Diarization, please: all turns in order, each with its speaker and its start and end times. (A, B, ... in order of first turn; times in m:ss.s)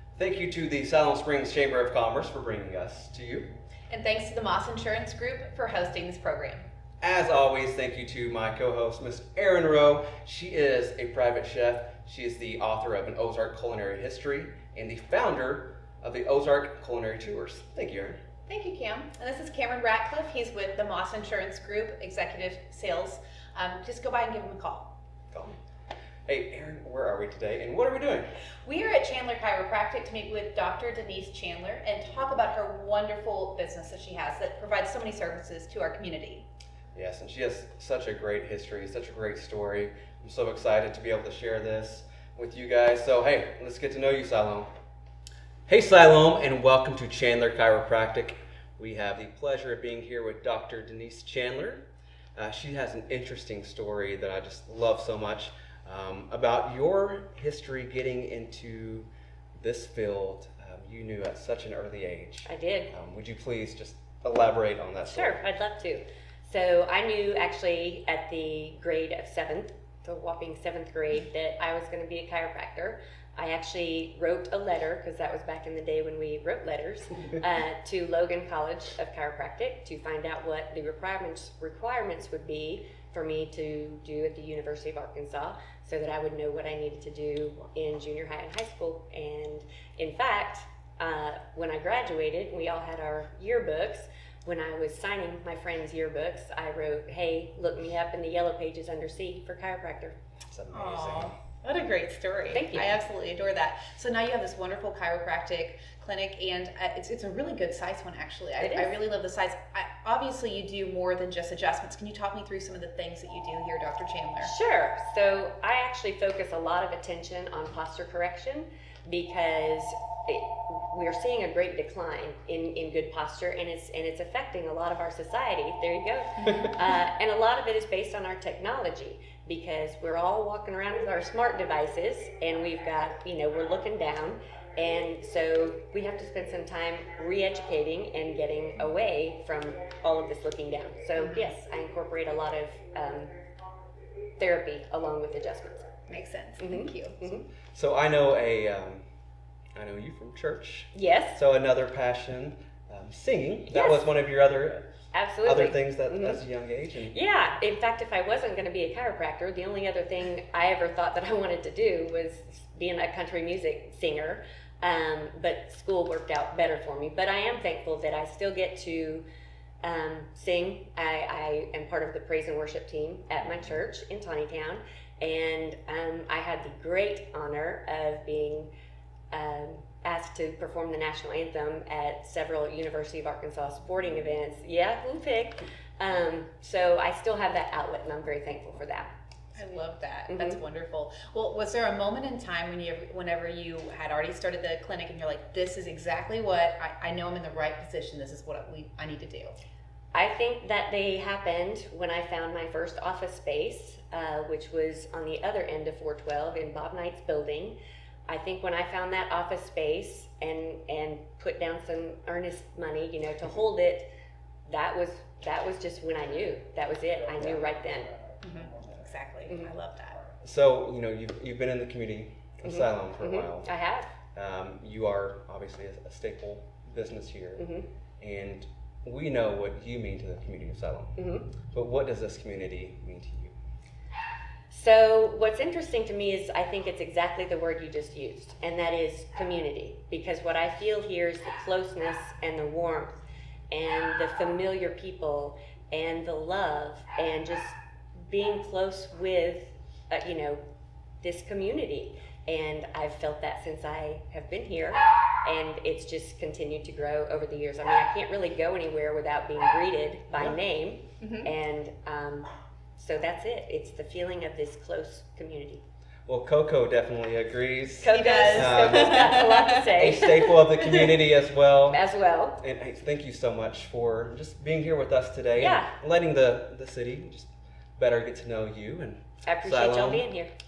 0:00.2-0:03.6 A
0:03.9-0:06.6 B
0:07.0-0:18.2 A
0:18.5-0:24.9 B
0:26.2-0:28.3 A
0:28.6-0:36.4 B
0:36.9-0:44.7 A
0:45.7-1:05.4 A
1:02.4-1:02.9 C
1:05.0-1:40.2 C
1:40.5-1:41.3 A
1:40.7-1:54.5 B
1:42.5-1:42.9 C
1:48.6-1:49.0 C
1:54.4-2:23.3 C
2:21.2-2:21.4 B
2:24.4-2:25.9 C
2:26.1-2:27.2 B
2:26.6-2:27.5 C
2:27.7-2:29.0 A
2:29.8-2:34.9 A
2:30.9-2:31.4 C
2:33.7-2:34.1 C
2:35.1-2:36.4 C
2:35.4-2:37.2 A
2:37.1-2:49.2 C
2:49.8-2:58.7 C
2:59.3-3:09.1 C
3:09.5-3:19.6 B
3:10.3-3:10.6 C
3:20.1-3:27.8 C
3:28.3-3:34.1 C
3:34.7-3:38.1 C
3:38.4-3:40.2 B
3:40.4-3:43.7 A
3:42.6-3:44.1 C
3:44.3-3:47.7 A
3:47.6-3:47.9 C
3:48.2-3:53.5 A
3:51.2-3:51.5 C
3:54.7-4:03.2 C
4:03.7-4:07.8 C
4:08.3-4:10.6 C
4:11.2-4:25.8 C
4:21.2-4:21.5 B
4:26.3-4:32.0 A
4:28.0-4:31.2 C
4:28.1-4:29.8 B
4:31.9-4:32.6 C
4:32.6-4:40.2 A
4:35.6-4:35.9 C
4:39.4-4:40.5 C